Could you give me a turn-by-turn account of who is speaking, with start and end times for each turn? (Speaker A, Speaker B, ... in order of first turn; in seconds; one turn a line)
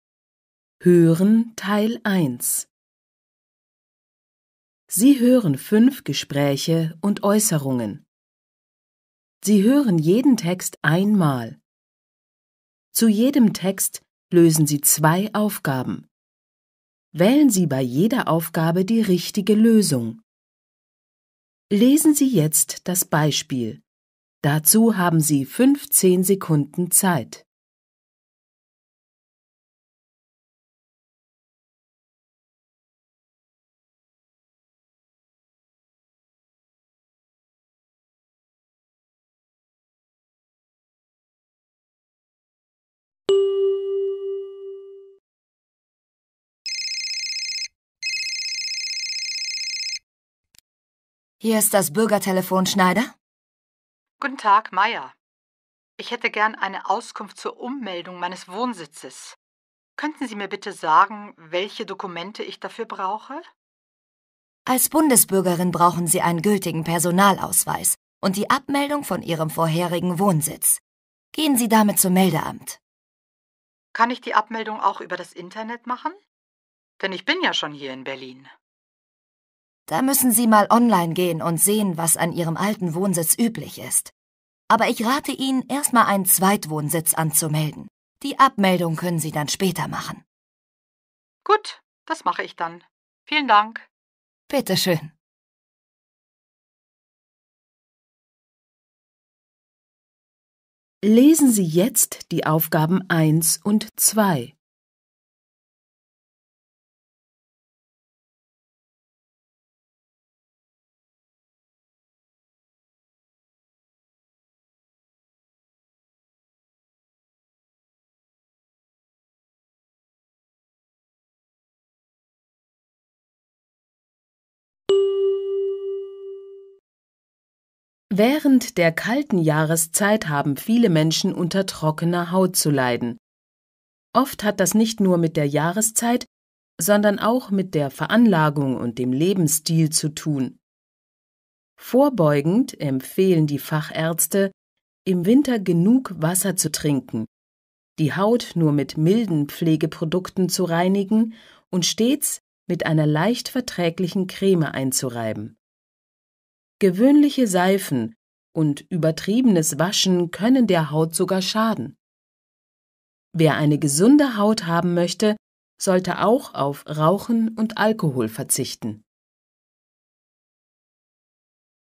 Speaker A: 0.8-2.7
Speaker A: 4.9-8.0
Speaker A: 9.4-11.6
Speaker A: 12.9-16.1
Speaker A: 17.1-20.2
Speaker A: 21.7-23.8
Speaker A: 24.4-27.4
Speaker B: 51.4-53.1
Speaker C: 54.2-55.1
Speaker C: 56.0-59.4
Speaker C: 60.0-63.5
Speaker B: 64.7-70.8
Speaker B: 71.3-72.8
Speaker C: 73.9-76.2
Speaker C: 77.0-78.5
Speaker B: 79.9-84.1
Speaker B: 84.7-90.2
Speaker C: 91.5-93.8
Speaker B: 94.5-95.1
Speaker A: 101.0-104.5
Speaker A: 128.1-133.2
Speaker A: 134.1-136.3
Speaker A: 136.8-140.6
Speaker A: 141.8-144.5
Speaker A: 145.1-147.3
Speaker A: 148.0-155.6
Speaker A: 156.8-162.0
Speaker A: 163.3-169.0